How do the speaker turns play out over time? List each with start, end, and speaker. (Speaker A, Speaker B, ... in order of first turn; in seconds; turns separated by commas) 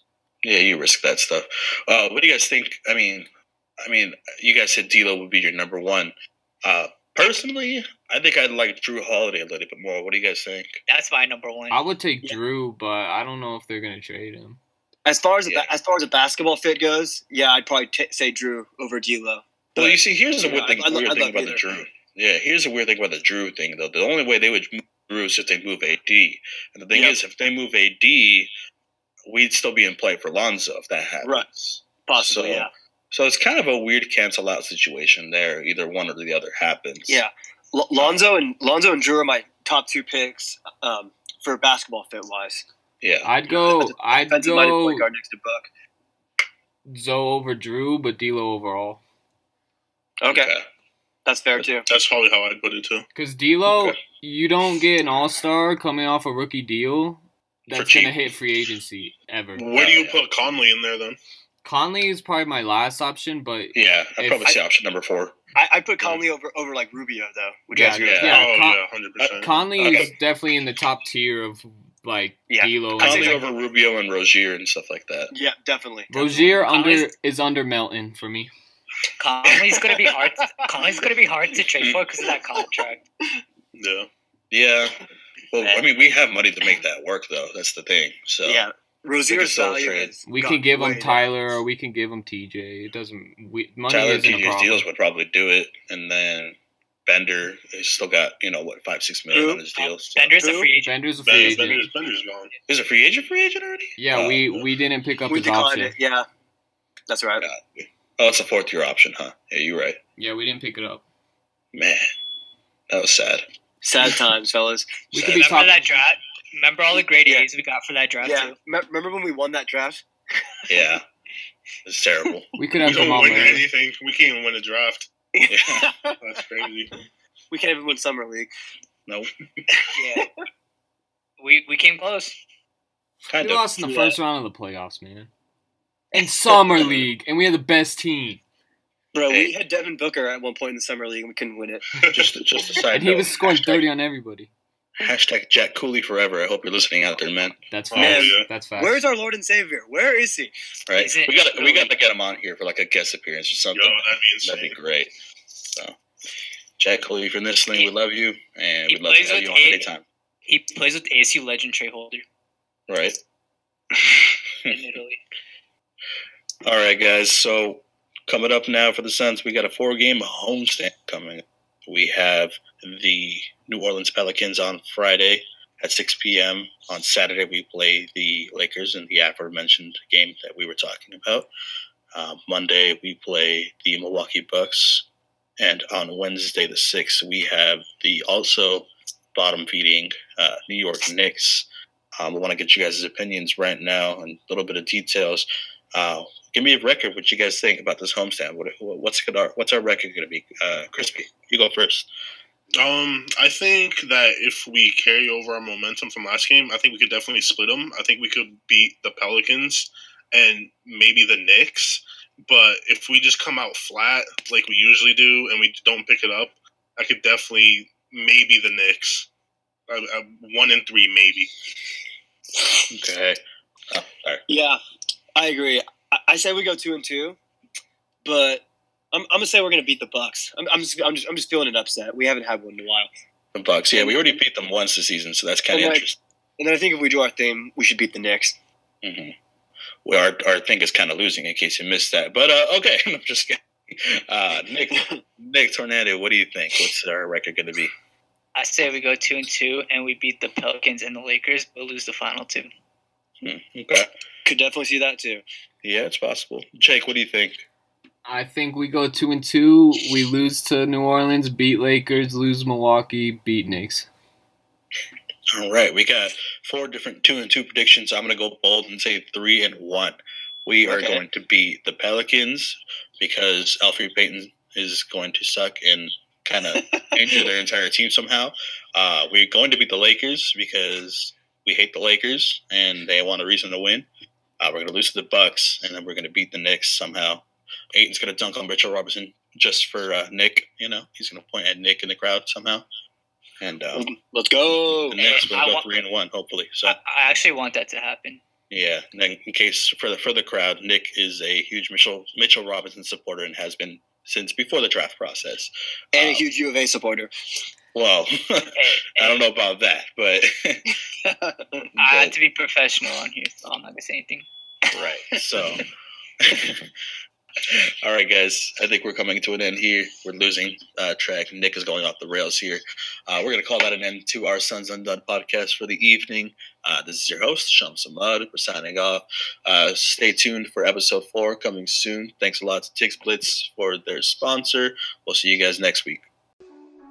Speaker A: 0.4-3.3, Speaker A: 3.8-6.1, Speaker A: 6.6-10.7, Speaker B: 10.9-11.8, Speaker C: 11.7-14.6, Speaker D: 15.1-21.8, Speaker A: 15.4-15.7, Speaker A: 19.8-28.5, Speaker D: 26.9-27.2, Speaker A: 29.3-37.2, Speaker D: 32.0-32.7, Speaker D: 37.1-42.6, Speaker A: 38.0-38.2, Speaker A: 43.0-43.3, Speaker C: 43.2-45.1, Speaker D: 43.7-45.7, Speaker C: 46.9-49.0, Speaker D: 50.2-50.5, Speaker A: 50.3-50.6, Speaker D: 51.2-51.9, Speaker E: 51.9-53.1, Speaker C: 53.1-59.6, Speaker A: 53.7-54.0, Speaker A: 57.7-58.1, Speaker E: 59.5-61.2, Speaker A: 59.7-60.2, Speaker C: 61.6-64.5, Speaker A: 63.7-65.4, Speaker D: 65.5-68.4, Speaker C: 67.7-68.8, Speaker A: 68.0-68.5, Speaker E: 68.3-69.9, Speaker A: 69.2-70.1, Speaker C: 69.4-73.5, Speaker D: 72.5-73.3, Speaker A: 72.9-75.3, Speaker D: 75.3-76.1, Speaker C: 76.1-78.5, Speaker B: 76.2-77.1, Speaker B: 79.2-83.0, Speaker D: 79.5-80.2, Speaker E: 83.7-84.1, Speaker A: 84.5-88.6, Speaker D: 85.6-85.8, Speaker D: 88.4-91.2, Speaker A: 89.3-90.1, Speaker C: 90.2-94.8, Speaker A: 93.9-100.2, Speaker D: 99.3-100.7, Speaker B: 100.2-101.0, Speaker C: 100.8-101.9, Speaker E: 101.2-102.5, Speaker A: 102.7-104.6, Speaker C: 104.0-105.9, Speaker D: 105.3-106.2, Speaker D: 107.1-107.5, Speaker A: 107.4-110.0, Speaker C: 110.2-111.0, Speaker A: 111.7-112.0, Speaker A: 112.9-113.4, Speaker D: 113.8-115.1, Speaker C: 115.1-115.9, Speaker A: 115.2-115.7, Speaker B: 115.3-118.5, Speaker D: 118.2-120.0, Speaker D: 120.6-120.9, Speaker A: 120.7-121.0, Speaker A: 121.8-122.5, Speaker C: 122.5-123.6, Speaker E: 122.8-125.1, Speaker D: 125.3-126.2, Speaker A: 125.5-125.9, Speaker E: 126.2-126.9, Speaker D: 127.5-128.5, Speaker D: 129.8-130.3, Speaker B: 129.9-130.2, Speaker B: 131.4-132.4, Speaker A: 133.3-133.7, Speaker C: 133.3-135.3, Speaker D: 133.8-134.2, Speaker C: 136.1-138.4, Speaker A: 136.5-137.1, Speaker D: 139.1-141.8, Speaker A: 139.3-139.6, Speaker E: 142.0-142.3, Speaker A: 142.1-143.8, Speaker C: 142.9-144.5, Speaker A: 145.0-147.6, Speaker C: 147.7-149.0, Speaker E: 147.9-148.5, Speaker D: 148.0-150.5, Speaker A: 150.9-155.1, Speaker B: 150.9-151.9, Speaker E: 153.7-154.8, Speaker A: 156.8-160.0, Speaker B: 158.9-159.9, Speaker B: 160.5-162.2, Speaker A: 162.9-163.2, Speaker A: 163.9-164.8, Speaker B: 164.7-165.2, Speaker A: 166.6-181.5, Speaker A: 182.1-185.1, Speaker A: 185.6-202.1, Speaker E: 202.8-219.3, Speaker E: 219.9-221.5, Speaker A: 222.9-223.4, Speaker A: 223.9-224.4, Speaker D: 224.5-224.8, Speaker D: 225.3-227.4, Speaker D: 228.2-233.1, Speaker A: 233.5-236.2, Speaker D: 233.9-234.4, Speaker D: 235.7-236.0, Speaker D: 236.6-238.6, Speaker A: 239.0-239.3, Speaker A: 240.0-247.9, Speaker B: 248.6-252.7, Speaker A: 253.4-254.1, Speaker D: 254.4-255.4, Speaker A: 255.8-257.6, Speaker C: 258.2-264.1, Speaker A: 265.5-284.1, Speaker D: 270.9-271.2, Speaker A: 284.6-292.8, Speaker A: 293.6-294.1, Speaker D: 293.9-295.2, Speaker A: 295.0-297.0, Speaker B: 295.2-295.9, Speaker B: 296.8-298.4, Speaker A: 298.7-306.4, Speaker D: 306.1-307.3, Speaker A: 307.9-310.9, Speaker B: 308.7-309.4, Speaker D: 311.2-311.8, Speaker A: 311.9-312.3, Speaker B: 312.0-314.4, Speaker A: 314.9-315.8, Speaker A: 316.4-316.9, Speaker A: 317.7-336.2